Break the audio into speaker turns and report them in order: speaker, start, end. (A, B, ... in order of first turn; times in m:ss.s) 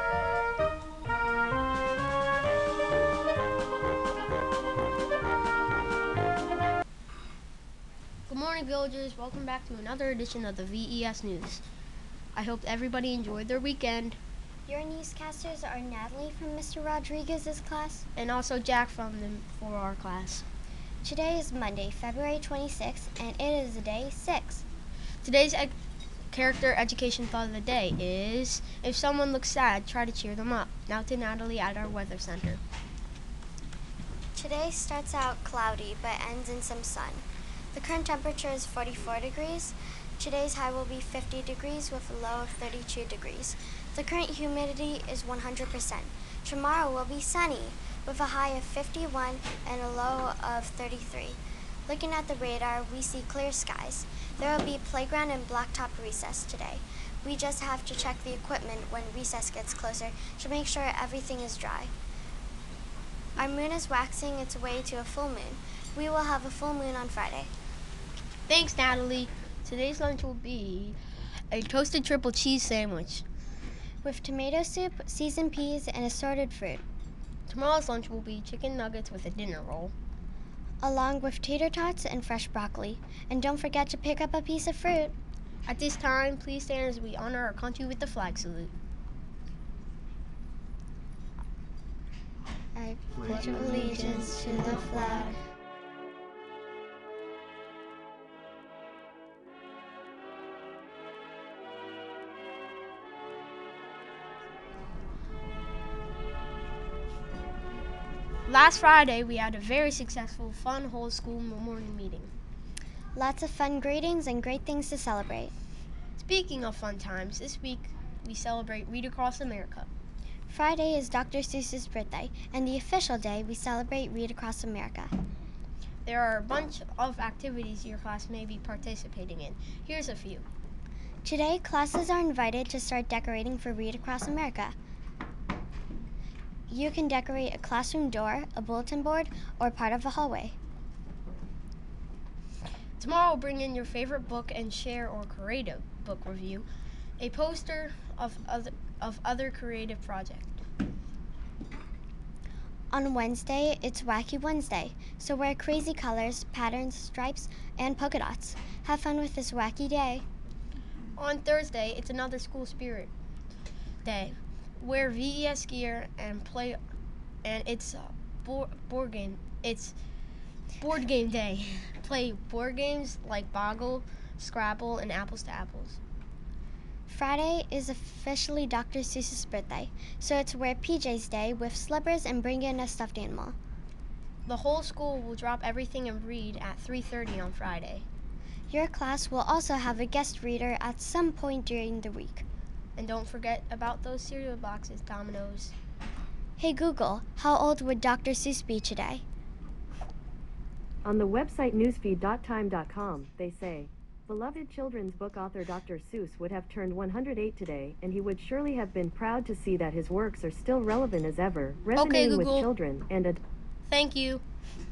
0:08.3-0:11.6 A
0:12.3-0:14.2 A
0:14.7-0:18.1 B
0:18.2-0:20.5 A
0:21.0-0:24.7 B
0:25.2-0:25.8 A
0:26.3-0:32.6 A
0:34.4-1:01.9 B
1:03.4-1:07.5 B
1:08.5-1:11.0 A
1:11.5-1:13.2 A
1:14.0-1:16.8 B
1:17.5-1:19.9 A
1:20.8-1:25.2 B
1:25.7-1:28.7 A
1:32.8-1:35.4 B
1:48.5-1:52.3 A
1:53.2-1:55.5 B
1:56.2-1:59.9 A
2:00.5-2:05.1 B
2:06.0-2:10.4 A
2:11.2-2:14.8 B
2:16.7-2:20.6 B
2:23.0-2:26.7 A
2:27.2-2:30.6 A
2:32.9-2:40.2 B
2:41.2-2:43.1 A
2:44.0-2:46.8 A
2:47.4-2:50.0 A
2:50.8-2:56.0 A
2:57.1-3:03.6 B
3:04.5-3:08.1 A
3:08.7-3:12.4 B
3:13.0-3:15.8 A
3:16.6-3:19.2 B
3:21.0-3:33.4 C
3:32.0-3:32.7 A
3:33.9-3:34.4 A